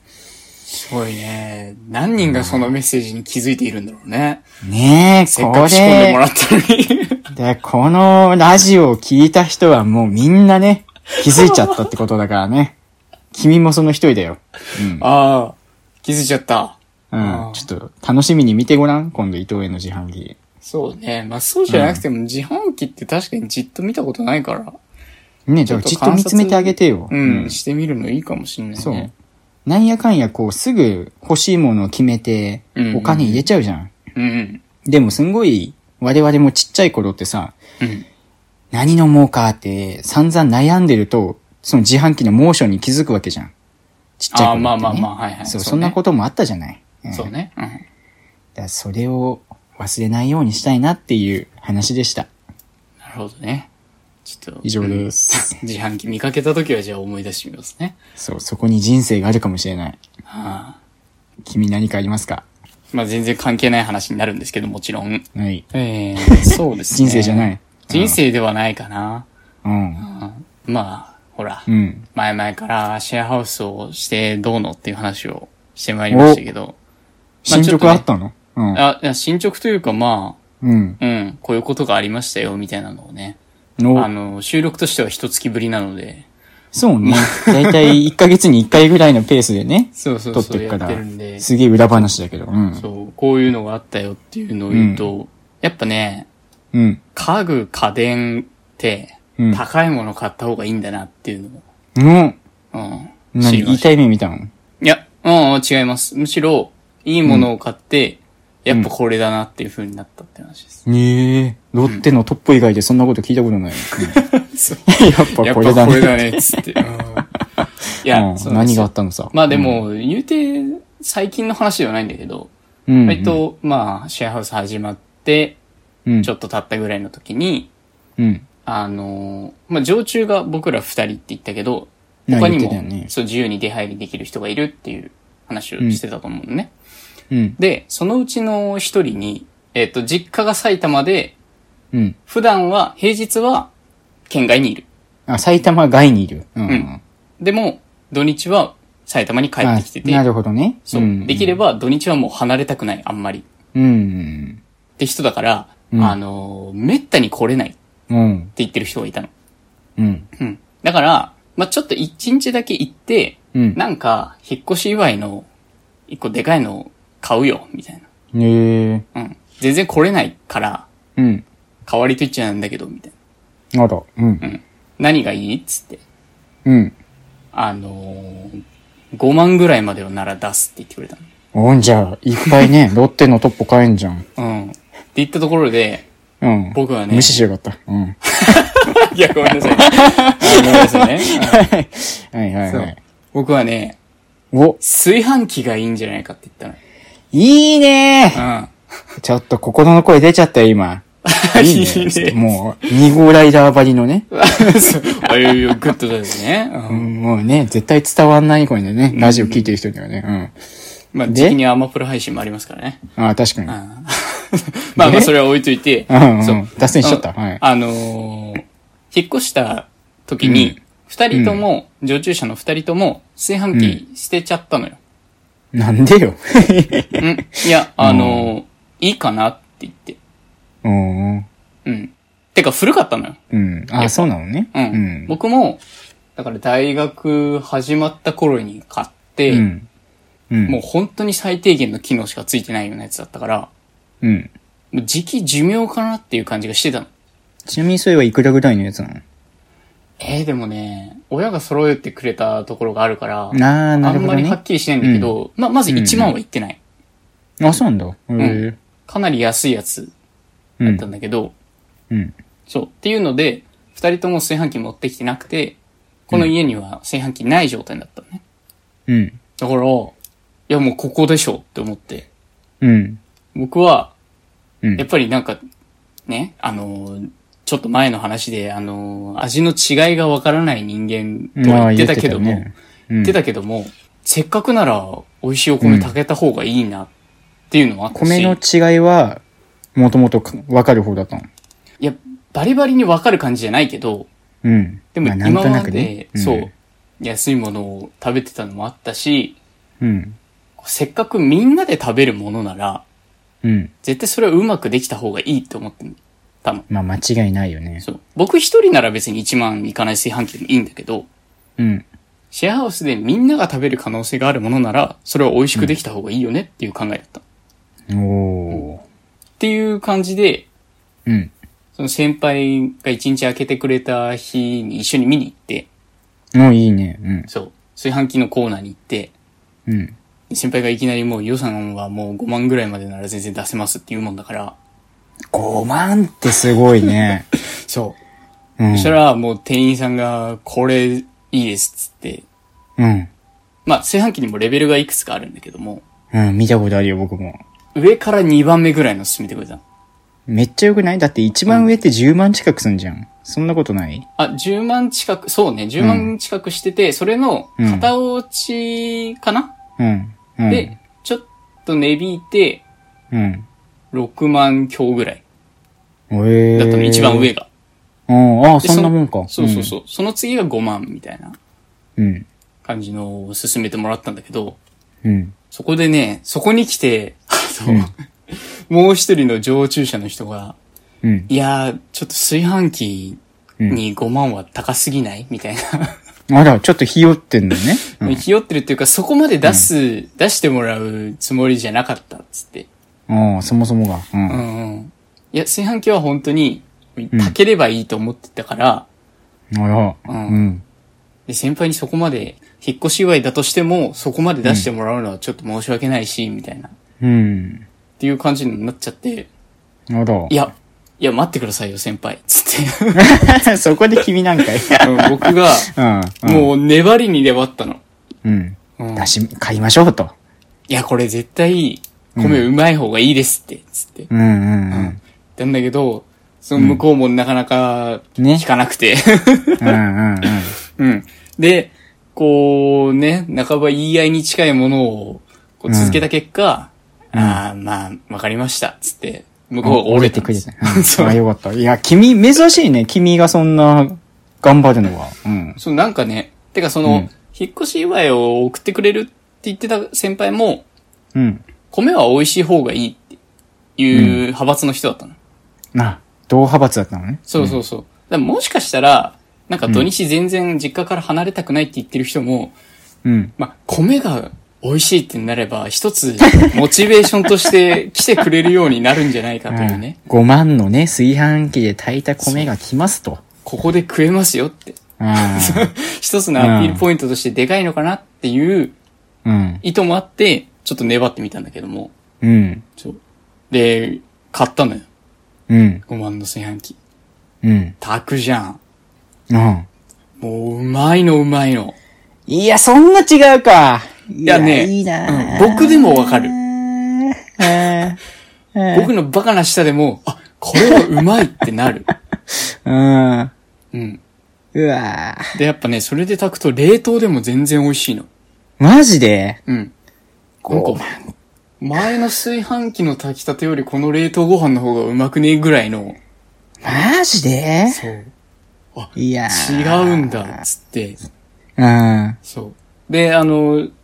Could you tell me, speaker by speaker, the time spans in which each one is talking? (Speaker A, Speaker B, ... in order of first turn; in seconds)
Speaker A: 0.7-4.4, 5.3-7.2, 11.2-11.8, 15.0-17.6, 20.6-24.8, 25.7-29.1, 32.8-33.4, 34.1-34.6, 44.3-46.0, 47.1-47.8, 53.0-53.7, 54.2-58.0, 60.2-60.8, 62.9-69.3, 70.0-76.8, 77.5-78.0, 78.7-80.4, 81.0-83.4, 83.9-86.3, 87.0-88.0, 90.0-92.1, 92.8-96.3, 97.1-101.6, 102.7-103.9, 104.8-110.8, 114.1-114.8, 115.4-117.3, 118.0-122.5, 123.0-125.6, 126.2-127.7, 128.6-136.7, 137.6-141.3, 142.3-143.7, 144.3-144.8, 147.4-150.2, 150.9-153.4, 155.0-157.8, 158.6-159.3, 160.4-165.5, 166.1-168.1, 169.1-170.9, 171.8-173.1, 174.4-176.0, 177.5-178.6, 179.1-181.3, 184.3-186.1, 186.7-187.4, 188.4-191.7, 192.7-194.0, 194.8-196.8, 198.3-198.7, 201.2-202.4, 204.3-207.1, 209.1-209.7, 211.1-213.0, 213.7-225.0, 227.2-230.2, 231.8-233.4, 234.0-235.8, 236.3-239.7, 240.7-243.7, 244.9-247.1, 250.2-256.8, 258.4-260.1, 260.8-261.5, 262.7-268.4, 269.6-270.1, 270.7-272.3, 273.5-274.1, 275.0-275.6, 276.3-282.7, 283.2-287.1, 287.7-288.6, 292.0-294.3, 295.1-299.6, 300.8-303.0, 304.0-306.9, 308.0-311.3, 312.5-317.4, 319.6-320.7, 321.9-325.9, 327.5-329.3, 330.5-334.8, 337.7-338.2, 338.9-342.4, 343.9-346.0, 347.9-349.8, 354.4-359.7, 360.7-362.8, 364.1-365.4, 366.7-367.7, 368.8-371.6, 372.8-374.8, 375.7-380.8, 381.5-386.1, 388.1-392.9, 394.5-399.1, 400.3-400.6, 401.5-406.9, 408.2-409.5, 410.5-413.4, 415.0-415.9, 416.4-418.0, 419.0-419.3, 420.9-424.3, 424.9-429.9, 430.9-441.4, 445.8-450.8, 451.9-453.4, 454.0-455.4, 457.5-462.8, 463.6-470.2, 472.4-472.7, 473.6-478.9, 479.8-482.1, 483.7-485.1, 486.1-487.0, 488.0-488.8, 490.4-491.9, 494.4-496.6, 498.9-502.1, 503.9-504.2, 505.5-508.3, 509.7-509.9, 510.7-511.1, 511.8-516.2, 517.9-518.3, 518.9-521.2, 522.5-523.9
Speaker B: 2.2-2.7, 4.6-6.2, 7.3-12.8, 13.3-15.1, 17.1-20.4, 21.7-22.0, 25.5-27.6, 28.8-29.1, 29.6-33.9, 34.8-37.6, 38.7-43.5, 44.2-47.3, 48.5-52.3, 54.6-55.5, 58.2-60.0, 61.4-62.4, 65.3-65.6, 66.3-68.2, 69.6-70.0, 71.7-72.0, 76.1-76.4, 77.4-78.8, 80.6-81.0, 83.8-84.1, 86.7-92.8, 94.7-95.1, 96.7-97.0, 102.0-102.4, 103.3-104.5, 110.8-114.2, 114.9-116.6, 118.1-119.8, 122.9-123.4, 128.2-128.4, 132.3-133.1, 137.3-137.6, 145.3-147.0, 149.6-151.6, 153.7-154.6, 158.1-158.5, 160.0-160.3, 163.5-163.8, 168.3-169.0, 171.2-171.4, 173.7-174.4, 176.7-176.9, 181.5-184.2, 186.4-188.2, 189.8-193.0, 194.5-194.8, 197.3-198.4, 199.2-201.0, 201.5-205.5, 206.9-210.5, 211.3-211.6, 213.2-213.8, 214.9-215.3, 216.1-217.6, 220.4-220.7, 221.3-221.6, 223.7-224.0, 225.7-227.2, 228.0-228.5, 230.8-231.5, 233.5-235.3, 239.5-239.9, 240.5-240.8, 244.2-244.5, 247.7-249.2, 253.5-255.3, 255.9-256.3, 257.6-258.8, 260.8-261.1, 269.1-269.4, 272.8-273.2, 281.6-283.4, 285.8-286.1, 288.1-289.4, 289.9-291.5, 294.6-296.7, 300.0-300.4, 303.6-303.9, 306.9-308.0, 311.8-312.1, 318.1-319.0, 321.2-321.5, 326.5-327.5, 329.9-330.1, 335.5-337.4, 338.8-339.1, 343.0-343.3, 346.3-347.6, 350.5-354.2, 356.0-356.3, 357.8-358.1, 360.0-360.9, 363.3-363.6, 366.3-367.5, 368.3-369.9, 372.2-372.4, 375.2-375.5, 381.2-381.5, 386.5-388.4, 393.3-394.6, 399.7-400.8, 407.2-407.8, 410.1-410.6, 413.1-416.7, 418.4-420.3, 422.4-422.7, 424.3-425.2, 426.8-427.0, 428.4-428.7, 429.8-430.7, 435.9-436.2, 437.3-437.6, 439.8-445.8, 451.3-451.6, 454.1-454.4, 455.9-457.8, 463.2-463.5, 469.7-473.4, 475.2-475.9, 476.6-477.0, 479.4-479.8, 482.4-482.8, 485.7-486.0, 487.6-487.9, 489.5-489.9, 492.5-498.2, 498.7-499.1, 502.9-503.5, 504.7-505.5, 508.8-509.6, 510.6-511.3, 516.8-518.0, 519.1-520.6, 521.8-522.4